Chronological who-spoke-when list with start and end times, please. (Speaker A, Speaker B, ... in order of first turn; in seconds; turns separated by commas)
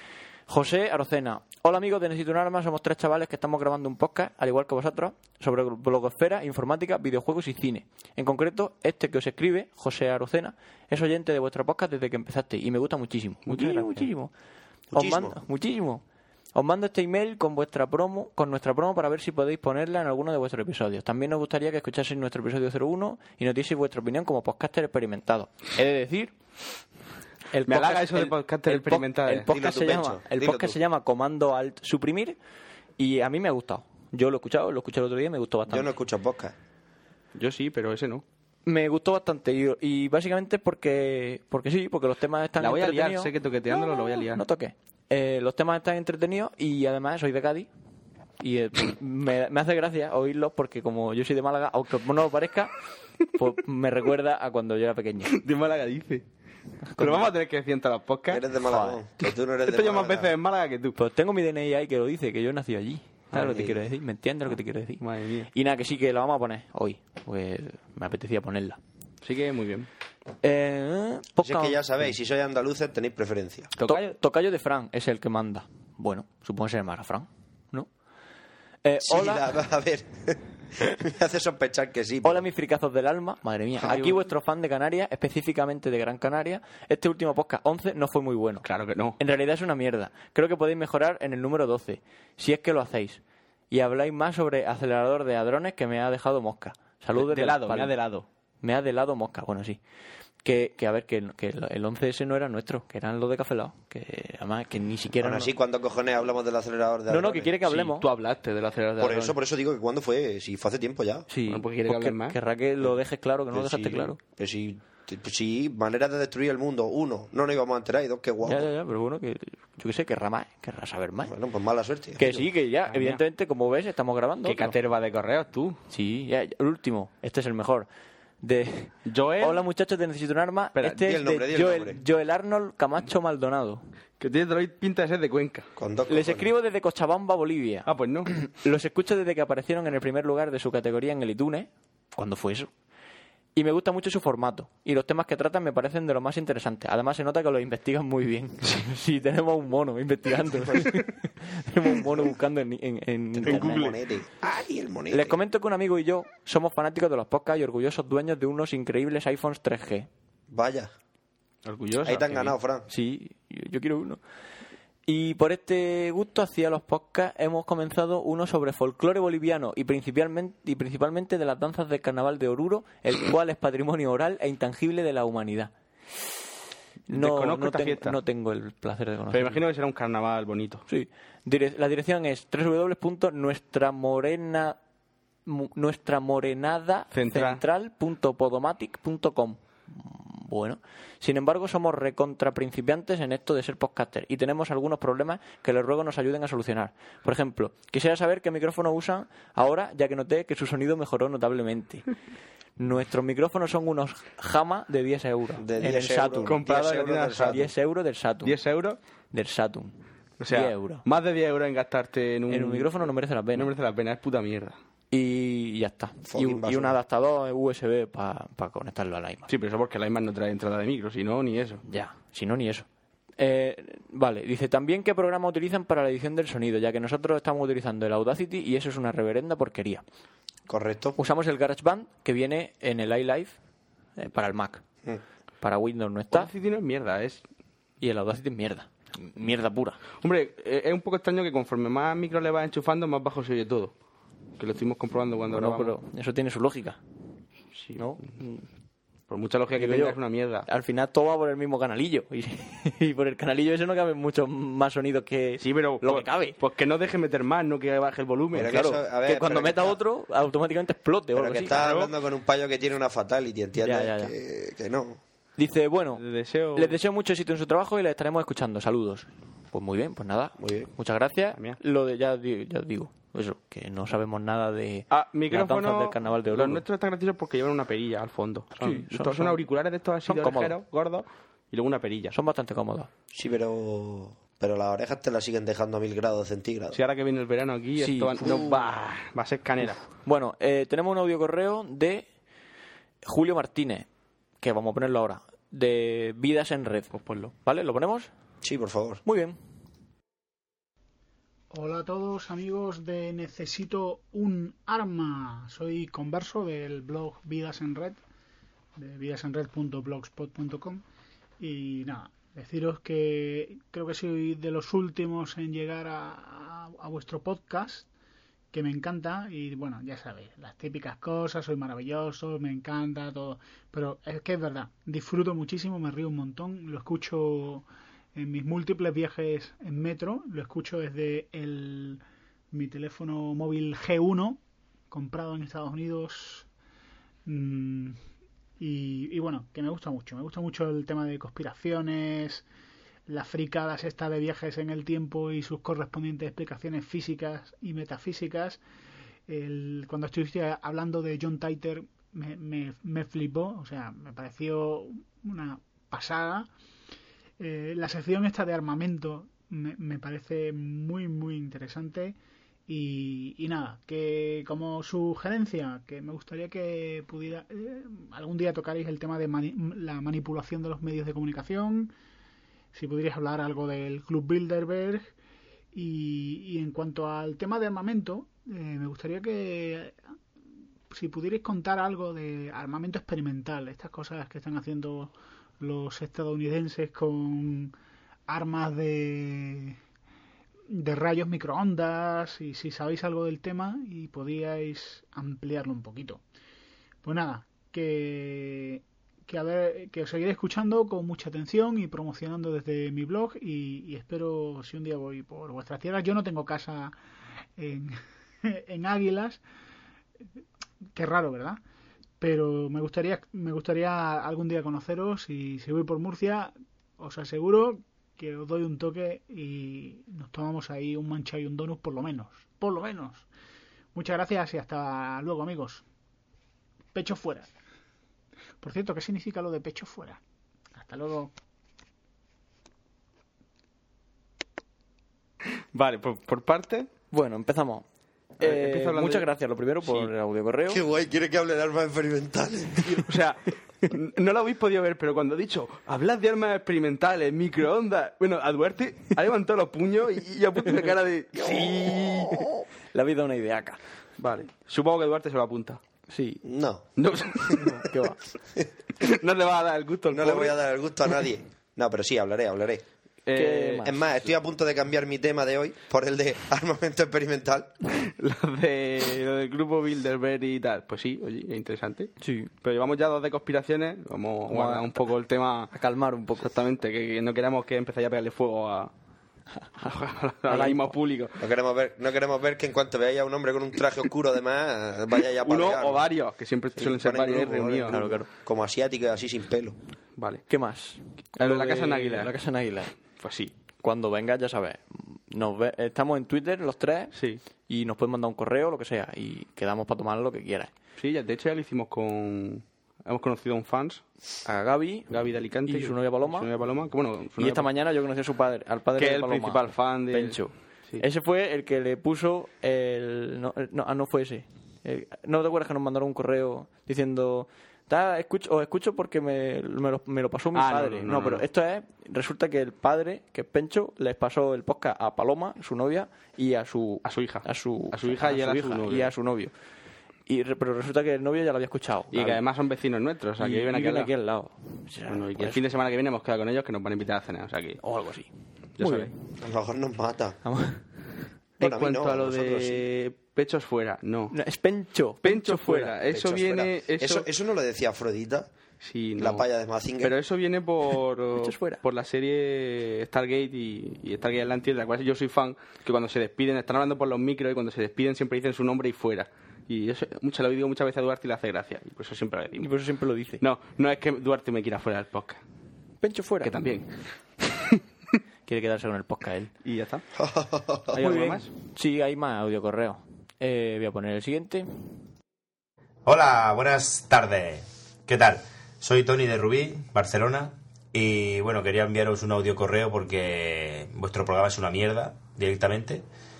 Speaker A: 0.5-14.3, Speaker B: 13.5-14.1, Speaker C: 14.9-15.4, Speaker A: 14.9-16.0, Speaker A: 16.6-26.3, Speaker A: 27.5-32.4, Speaker B: 27.7-29.5, Speaker C: 29.5-30.8, Speaker A: 33.0-35.9, Speaker C: 35.7-36.5, Speaker B: 37.4-38.2, Speaker A: 38.7-47.7, Speaker B: 42.6-44.4, Speaker A: 48.4-52.7, Speaker A: 53.3-55.3, Speaker B: 55.3-56.2, Speaker A: 56.9-57.3, Speaker B: 57.0-58.4, Speaker C: 58.3-60.3, Speaker A: 58.7-59.0, Speaker B: 59.7-61.0, Speaker A: 61.0-68.8, Speaker C: 63.4-63.7, Speaker B: 65.0-65.5, Speaker B: 69.2-69.9, Speaker A: 70.4-71.8, Speaker C: 71.4-73.7, Speaker B: 73.8-74.1, Speaker A: 73.8-77.9, Speaker A: 78.8-79.5, Speaker C: 79.0-82.5, Speaker A: 82.2-88.7, Speaker B: 83.8-84.2, Speaker B: 88.7-89.2, Speaker A: 89.2-97.9, Speaker B: 97.2-98.3, Speaker A: 98.6-99.8, Speaker A: 100.4-105.5, Speaker C: 105.2-107.5, Speaker A: 107.1-108.0, Speaker B: 107.6-109.4, Speaker C: 109.0-111.3, Speaker A: 111.3-114.2, Speaker B: 111.5-112.4, Speaker C: 113.5-118.7, Speaker A: 118.5-121.3, Speaker C: 121.3-122.2, Speaker A: 122.2-124.7, Speaker B: 122.3-123.2, Speaker B: 124.5-125.8, Speaker A: 125.9-127.9, Speaker A: 128.4-133.8, Speaker B: 129.1-129.6, Speaker C: 131.0-132.0, Speaker B: 134.2-135.7, Speaker C: 135.8-136.5, Speaker A: 136.1-142.7, Speaker B: 137.9-138.3, Speaker A: 143.6-153.9, Speaker C: 150.4-151.0, Speaker C: 153.4-155.4, Speaker B: 153.4-153.9, Speaker A: 155.1-160.1, Speaker C: 160.5-160.9, Speaker B: 161.7-162.6, Speaker C: 162.0-162.9, Speaker A: 162.9-164.2, Speaker A: 165.1-175.7, Speaker B: 177.1-178.2, Speaker A: 177.1-179.6, Speaker B: 179.3-180.8, Speaker A: 180.9-184.8, Speaker A: 185.5-202.1, Speaker B: 187.1-187.6, Speaker A: 202.8-206.6, Speaker C: 205.6-207.7, Speaker B: 206.4-207.7, Speaker A: 207.5-208.6, Speaker B: 208.4-209.0, Speaker A: 209.3-210.0, Speaker B: 210.4-214.8, Speaker A: 210.5-211.0, Speaker A: 212.5-213.7, Speaker A: 215.1-219.5, Speaker C: 216.2-217.0, Speaker B: 219.5-221.8, Speaker A: 221.9-222.9, Speaker A: 223.4-230.0, Speaker C: 230.7-231.2, Speaker A: 231.2-233.6, Speaker A: 234.2-234.8, Speaker A: 235.6-236.5, Speaker B: 236.3-237.4, Speaker A: 238.0-240.0, Speaker B: 240.2-243.9, Speaker B: 244.6-245.9, Speaker A: 245.5-247.0, Speaker B: 247.8-248.0, Speaker A: 247.9-248.7, Speaker B: 249.3-250.7, Speaker A: 249.8-256.6, Speaker B: 255.6-258.8, Speaker C: 258.5-260.0, Speaker A: 258.7-261.8, Speaker C: 261.3-265.2, Speaker B: 261.7-262.1, Speaker A: 263.8-264.3, Speaker A: 265.6-266.2, Speaker B: 266.2-266.9, Speaker A: 266.8-276.8, Speaker C: 270.6-270.9, Speaker B: 275.1-282.4, Speaker A: 278.8-279.6, Speaker A: 280.3-280.8, Speaker A: 282.3-283.1, Speaker C: 283.3-287.0, Speaker B: 286.9-290.0, Speaker A: 288.0-288.4, Speaker C: 288.4-288.8, Speaker A: 290.3-292.2, Speaker A: 293.2-294.1, Speaker A: 294.6-298.3, Speaker B: 297.1-297.5, Speaker C: 298.6-299.2, Speaker A: 299.2-299.6, Speaker D: 301.7-308.2, Speaker D: 309.0-311.0, Speaker D: 311.6-318.1, Speaker D: 318.7-334.6, Speaker D: 335.1-336.7, Speaker D: 337.5-338.2, Speaker D: 338.8-342.6, Speaker D: 343.3-348.8, Speaker D: 349.5-356.7, Speaker D: 357.6-362.4, Speaker D: 362.9-372.1, Speaker D: 372.9-375.3, Speaker D: 375.9-380.2, Speaker D: 381.1-387.9, Speaker D: 388.5-390.0, Speaker D: 390.9-396.4, Speaker D: 397.2-407.1, Speaker D: 407.8-409.6, Speaker D: 411.1-411.8, Speaker D: 412.4-423.5, Speaker D: 424.1-426.0, Speaker D: 427.1-427.7, Speaker D: 428.8-430.4, Speaker D: 430.9-431.5, Speaker B: 435.9-437.1, Speaker A: 437.3-438.1, Speaker A: 438.6-441.0, Speaker B: 438.6-439.5, Speaker B: 440.0-440.3, Speaker C: 440.9-443.2, Speaker B: 443.1-452.7, Speaker A: 452.1-454.0, Speaker B: 454.4-456.0, Speaker A: 456.3-456.6, Speaker C: 456.6-457.1, Speaker B: 457.2-457.9, Speaker A: 457.7-458.4, Speaker B: 459.2-460.8, Speaker C: 460.3-463.0, Speaker B: 463.5-464.1, Speaker A: 463.5-464.2, Speaker C: 464.0-467.9, Speaker B: 468.2-475.9, Speaker A: 472.4-472.7, Speaker A: 474.7-475.2, Speaker A: 475.9-476.7, Speaker B: 476.6-479.1, Speaker B: 480.0-481.6, Speaker A: 480.7-481.2, Speaker C: 481.6-486.3, Speaker B: 485.6-488.2, Speaker C: 487.0-490.0, Speaker A: 488.1-488.5, Speaker B: 490.4-490.6, Speaker A: 490.7-493.1, Speaker B: 491.6-492.5, Speaker B: 493.4-493.7, Speaker A: 494.0-497.3, Speaker B: 497.3-497.6, Speaker A: 497.9-500.9, Speaker B: 501.2-504.2, Speaker A: 504.6-505.3, Speaker B: 505.3-507.9, Speaker A: 505.9-506.7, Speaker A: 507.6-529.7, Speaker B: 509.2-511.2, Speaker B: 520.8-521.6, Speaker B: 527.2-529.3, Speaker A: 530.5-532.6, Speaker B: 532.3-534.3, Speaker A: 533.6-535.8, Speaker B: 535.3-538.0, Speaker A: 538.0-539.3, Speaker B: 539.0-539.3, Speaker C: 539.6-540.6, Speaker A: 540.6-541.0, Speaker C: 541.8-543.0, Speaker B: 541.8-544.6, Speaker A: 544.5-546.2, Speaker B: 545.4-547.5, Speaker C: 546.3-548.7, Speaker B: 549.0-549.7, Speaker C: 549.4-550.4, Speaker B: 550.2-562.9, Speaker A: 551.5-552.0, Speaker A: 562.8-563.6, Speaker B: 563.6-565.6, Speaker A: 566.2-566.8, Speaker B: 566.6-567.1, Speaker A: 568.7-569.7, Speaker B: 569.8-570.2, Speaker C: 570.4-571.2, Speaker B: 571.1-571.7, Speaker A: 571.2-574.9, Speaker E: 576.3-586.2